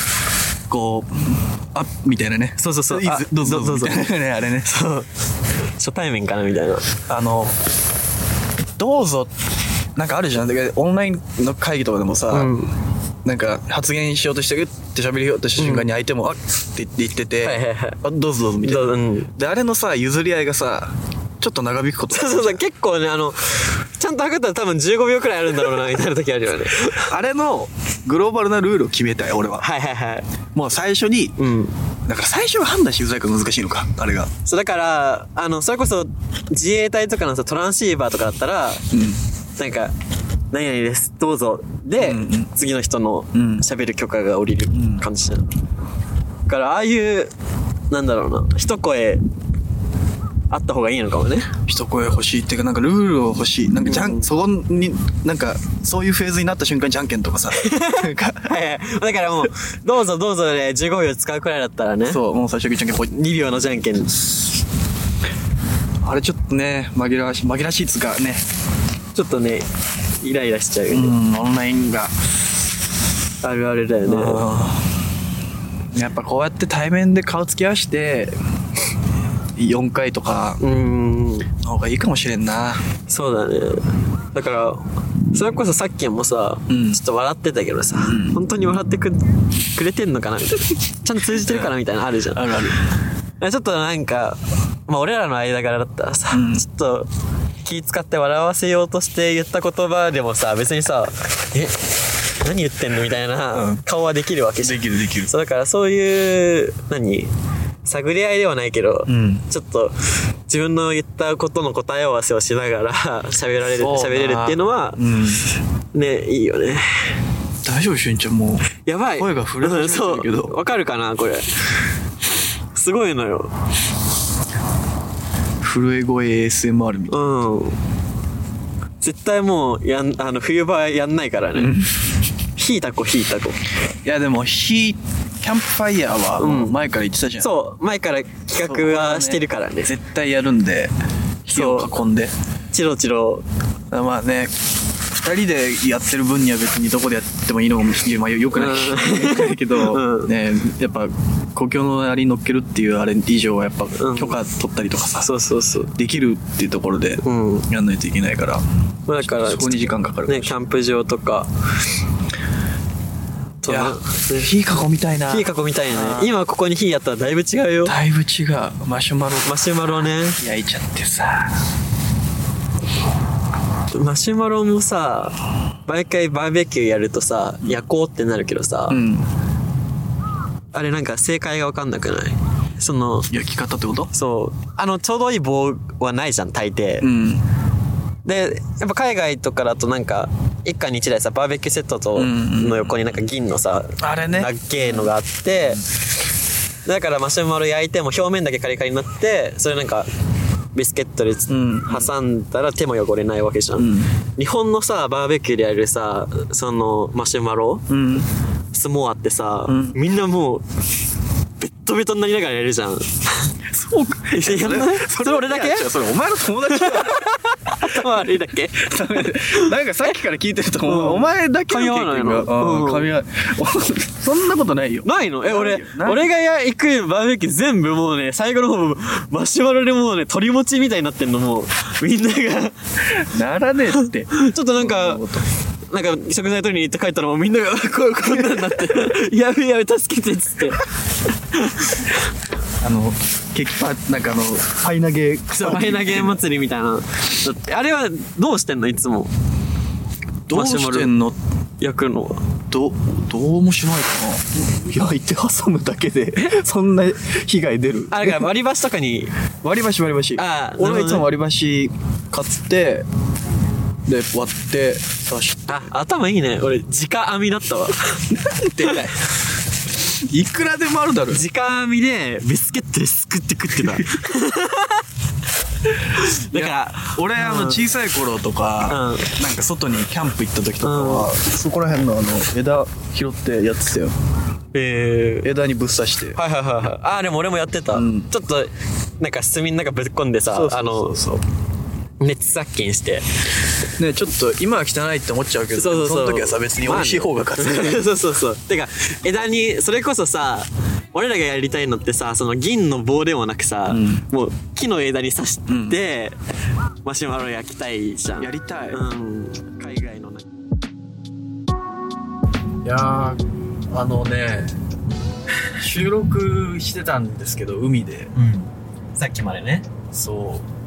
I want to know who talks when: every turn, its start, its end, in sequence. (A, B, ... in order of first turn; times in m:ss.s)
0:00.7-0:04.7 A
0:02.6-0:04.1 B
0:04.6-0:05.1 B
0:05.8-0:06.9 B
0:07.1-0:07.6 A
0:08.8-0:09.3 A
0:10.0-0:12.5 A
0:12.3-0:12.7 B
0:13.2-0:22.6 A
0:15.6-0:15.9 B
0:17.4-0:18.0 B
0:18.6-0:19.3 B
0:22.1-0:27.1 B
0:26.9-0:29.6 A
0:29.6-0:30.2 B
0:30.5-0:31.4 A
0:31.4-0:31.7 B
0:32.1-0:34.3 A
0:34.4-0:38.8 B
0:38.9-0:39.2 A
0:39.6-0:39.9 B
0:40.5-0:45.5 B
0:42.0-0:42.5 A
0:43.3-0:43.6 A
0:44.7-0:45.0 A
0:46.5-0:47.3 B
0:47.9-0:49.2 B
0:50.5-0:51.5 B
0:51.7-0:58.5 A
0:57.5-1:02.2 B
1:02.1-1:03.1 A
1:03.1-1:04.2 B
1:06.0-1:08.4 A
1:09.1-1:09.7 B
1:10.2-1:11.1 B
1:10.9-1:12.2 A
1:13.4-1:14.5 B
1:14.0-1:14.9 A
1:15.9-1:18.4 A
1:19.6-1:20.6 A
1:20.6-1:21.5 B
1:21.6-1:22.8 A
1:23.1-1:32.6 B
1:26.7-1:27.0 A
1:28.0-1:28.4 A
1:31.3-1:31.7 A
1:32.3-1:32.8 A
1:33.4-1:37.1 B
1:36.3-1:36.6 A
1:37.6-1:47.3 B
1:43.5-1:43.8 A
1:44.6-1:45.3 A
1:47.8-1:49.9 B
1:49.1-1:49.4 A
1:50.5-1:55.0 B
1:53.7-1:55.4 A
1:55.9-1:57.1 B
1:57.6-2:00.6 A
1:58.8-2:01.5 B
2:02.7-2:03.5 B
2:05.6-2:07.2 A
2:07.1-2:07.8 B
2:09.0-2:11.8 B
2:11.6-2:11.9 A
2:12.6-2:13.6 B
2:14.0-2:17.5 A
2:16.4-2:16.8 B
2:17.4-2:19.9 B
2:18.6-2:20.9 A
2:21.4-2:22.3 A
2:21.5-2:21.9 B
2:22.7-2:23.4 B
2:23.9-2:24.5 A
2:25.1-2:35.3 A
2:28.5-2:30.3 B
2:34.0-2:34.4 B
2:35.2-2:35.9 B
2:35.9-2:38.6 A
2:37.2-2:37.7 B
2:39.1-2:41.5 B
2:39.2-2:40.6 A
2:43.6-2:44.5 B
2:43.7-2:46.3 A
2:45.3-2:48.0 B
2:47.8-2:49.6 A
2:49.4-2:50.4 B
2:50.4-2:51.6 A
2:53.9-2:59.0 B
2:58.9-2:59.3 A
3:00.7-3:03.3 B
3:03.3-3:04.1 A
3:04.1-3:07.1 B
3:07.0-3:07.4 A
3:08.2-3:15.8 B
3:12.2-3:13.0 A
3:14.0-3:15.8 A
3:16.8-3:20.1 B
3:20.7-3:27.8 B
3:21.5-3:22.1 A
3:23.8-3:24.1 A
3:27.9-3:28.3 A
3:28.7-3:30.6 B
3:29.7-3:30.0 A
3:31.6-3:33.5 B
3:33.7-3:38.0 A
3:34.3-3:35.9 B
3:36.7-3:40.1 B
3:38.7-3:46.3 A
3:40.8-3:43.1 B
3:45.0-3:52.7 B
3:53.2-3:55.4 A
3:54.3-3:55.2 B
3:55.9-4:00.9 B
3:58.2-3:59.1 A
4:01.5-4:02.2 B
4:02.8-4:06.4 A
4:05.5-4:09.3 B
4:10.5-4:11.4 A
4:10.5-4:11.1 B
4:11.8-4:12.4 B
4:12.7-4:18.4 A
4:18.1-4:19.3 B
4:19.6-4:23.0 A
4:20.4-4:21.2 B
4:24.1-4:25.8 A
4:25.7-4:29.0 B
4:28.5-4:29.2 A
4:30.0-4:31.4 A
4:31.3-4:35.0 B
4:33.8-4:34.1 A
4:36.1-4:37.8 B
4:36.2-4:44.2 A
4:38.9-4:39.3 B
4:40.8-4:41.3 B
4:44.7-4:45.5 B
4:45.4-4:46.4 A
4:46.4-4:51.2 B
4:47.9-4:48.3 A
4:50.5-4:51.4 A
4:52.2-4:53.2 B
4:54.0-4:58.0 A
4:55.8-5:06.4 B
5:03.9-5:04.2 A
5:05.7-5:06.0 A
5:07.0-5:10.4 B
5:08.4-5:09.0 A
5:12.8-5:14.8 A
5:15.7-5:18.3 A
5:18.3-5:19.9 B
5:20.1-5:20.7 A